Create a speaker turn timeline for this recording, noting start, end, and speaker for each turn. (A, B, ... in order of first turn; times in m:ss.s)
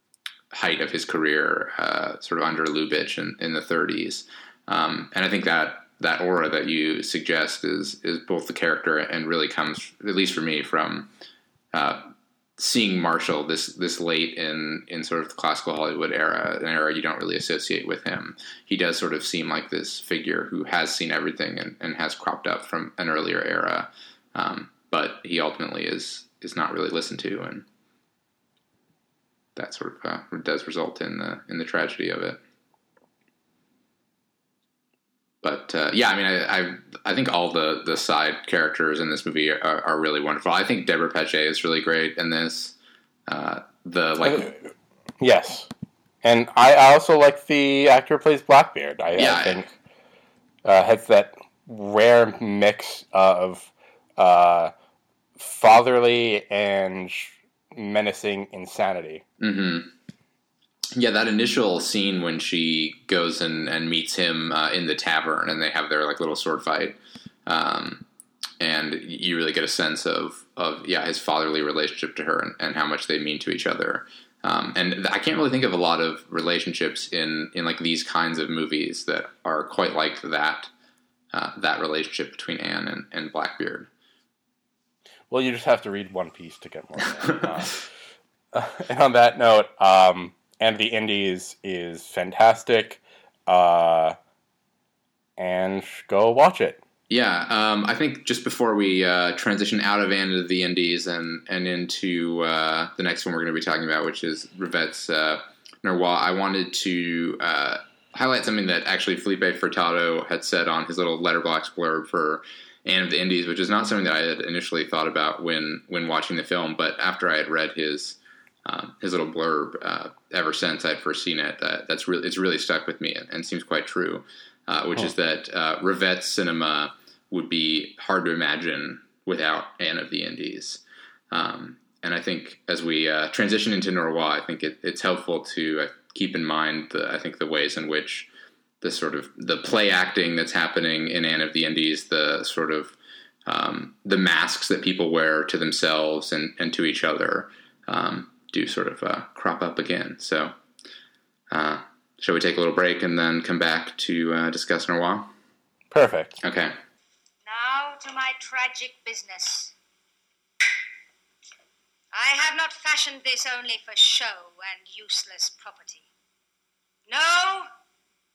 0:00.5-0:11.1 A
0:11.7-0:27.6 A
0:29.6-0:32.4 A
0:35.4-0:42.8 A
0:43.3-0:44.5 A
0:44.2-0:44.6 B
0:45.2-0:45.7 B
0:46.2-0:49.8 B
0:49.2-0:49.6 A
0:50.6-0:54.7 B
0:55.4-0:59.2 B
0:59.4-0:59.9 A
1:00.9-1:08.0 A
1:08.6-1:20.7 A
1:21.3-1:23.9 A
1:25.3-1:27.9 B
1:27.2-1:27.5 A
1:28.5-1:34.2 B
1:35.4-1:36.8 B
1:37.1-2:18.3 A
2:18.8-2:30.5 A
2:31.5-2:35.3 A
2:35.9-2:36.4 B
2:36.4-2:36.8 A
2:37.4-2:39.7 C
2:42.1-2:46.1 C
2:47.1-2:47.7 C